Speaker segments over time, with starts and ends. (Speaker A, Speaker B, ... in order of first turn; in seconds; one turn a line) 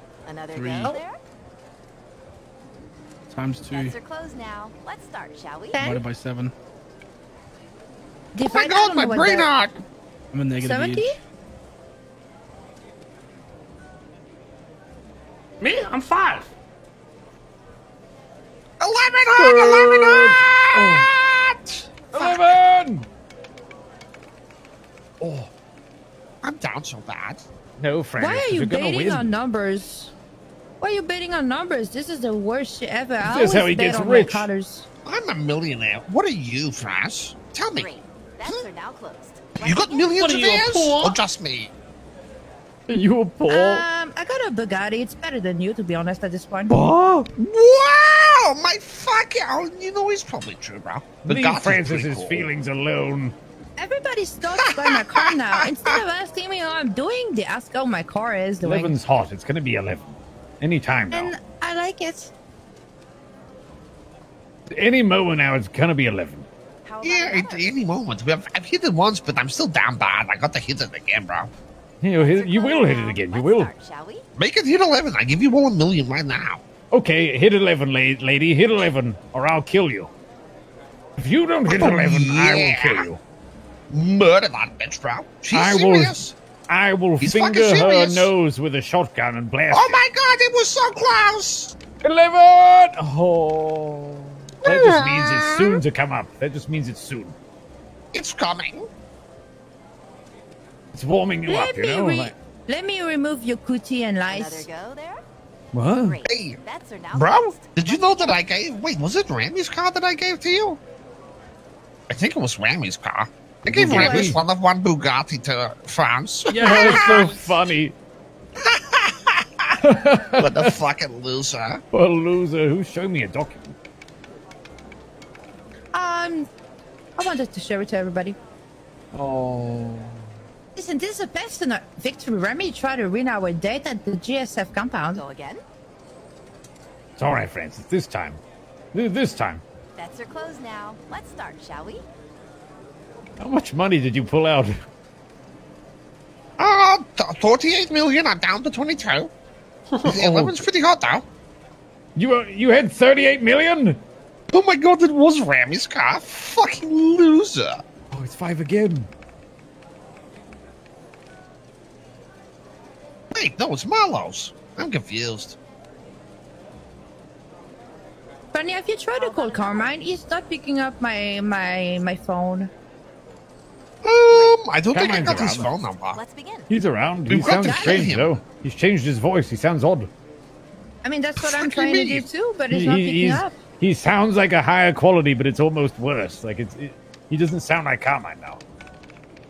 Speaker A: 0.2-1.2
Speaker B: 0.5-1.0
Speaker B: 3.3-3.9
Speaker A: 3.7-5.8
Speaker C: 5.7-6.0
Speaker B: 5.8-6.5
Speaker C: 8.3-9.5
Speaker D: 8.4-9.8
Speaker B: 10.3-11.1
Speaker C: 10.6-11.2
Speaker E: 15.6-16.5
Speaker D: 18.8-22.6
Speaker F: 19.4-21.1
Speaker F: 22.1-23.1
Speaker F: 25.2-25.5
Speaker D: 26.4-27.4
Speaker F: 27.8-29.3
Speaker C: 28.2-30.1
Speaker C: 30.8-34.9
Speaker F: 33.2-34.5
Speaker D: 35.0-37.9
Speaker A: 37.8-40.1
Speaker D: 39.6-41.7
Speaker E: 40.2-41.2
Speaker F: 42.9-43.9
Speaker C: 43.5-46.8
Speaker F: 46.7-47.3
Speaker D: 47.4-52.5
Speaker F: 51.2-53.4
Speaker C: 53.8-59.0
Speaker D: 54.6-56.0
Speaker F: 58.6-61.3
Speaker C: 61.1-62.3
Speaker F: 64.7-66.5
Speaker A: 66.8-67.7
Speaker D: 67.0-71.5
Speaker F: 72.0-73.7
Speaker A: 72.2-74.2
Speaker D: 74.4-76.6
Speaker F: 76.9-80.1
Speaker F: 81.2-83.2
Speaker D: 81.7-83.1
Speaker D: 83.9-86.4
Speaker F: 85.5-90.0
Speaker D: 87.2-88.3
Speaker D: 89.7-91.7
Speaker F: 92.0-97.3
Speaker D: 94.6-95.8
Speaker D: 98.1-98.9
Speaker F: 100.9-102.3
Speaker C: 101.5-104.7
Speaker A: 104.3-105.2
Speaker F: 105.7-106.2
Speaker A: 106.0-108.5
Speaker D: 106.2-106.6
Speaker D: 107.1-110.8
Speaker D: 112.1-117.3
Speaker F: 113.6-114.4
Speaker E: 116.5-117.6
Speaker F: 116.6-118.0
Speaker D: 118.6-119.7
Speaker F: 119.8-120.7
Speaker D: 120.4-121.8
Speaker F: 121.9-123.8
Speaker C: 125.9-126.5
Speaker C: 127.2-128.4
Speaker F: 129.1-130.2
Speaker C: 130.8-135.2
Speaker A: 135.1-135.6
Speaker F: 137.2-138.4
Speaker F: 138.9-139.6
Speaker A: 139.9-142.1
Speaker F: 143.4-144.7
Speaker D: 146.6-149.3
Speaker E: 149.9-150.2
Speaker D: 150.1-151.2
Speaker F: 150.2-150.5
Speaker F: 152.2-154.0
Speaker D: 154.5-157.8
Speaker F: 158.1-159.1
Speaker D: 163.3-165.6
Speaker C: 168.5-172.7
Speaker A: 169.2-170.0
Speaker D: 174.0-176.2
Speaker A: 174.3-174.6
Speaker F: 174.9-175.8
Speaker A: 175.3-176.7
Speaker F: 176.7-180.1
Speaker D: 177.3-178.4
Speaker C: 177.6-178.1
Speaker C: 181.0-183.6
Speaker D: 181.4-182.2
Speaker F: 182.7-188.6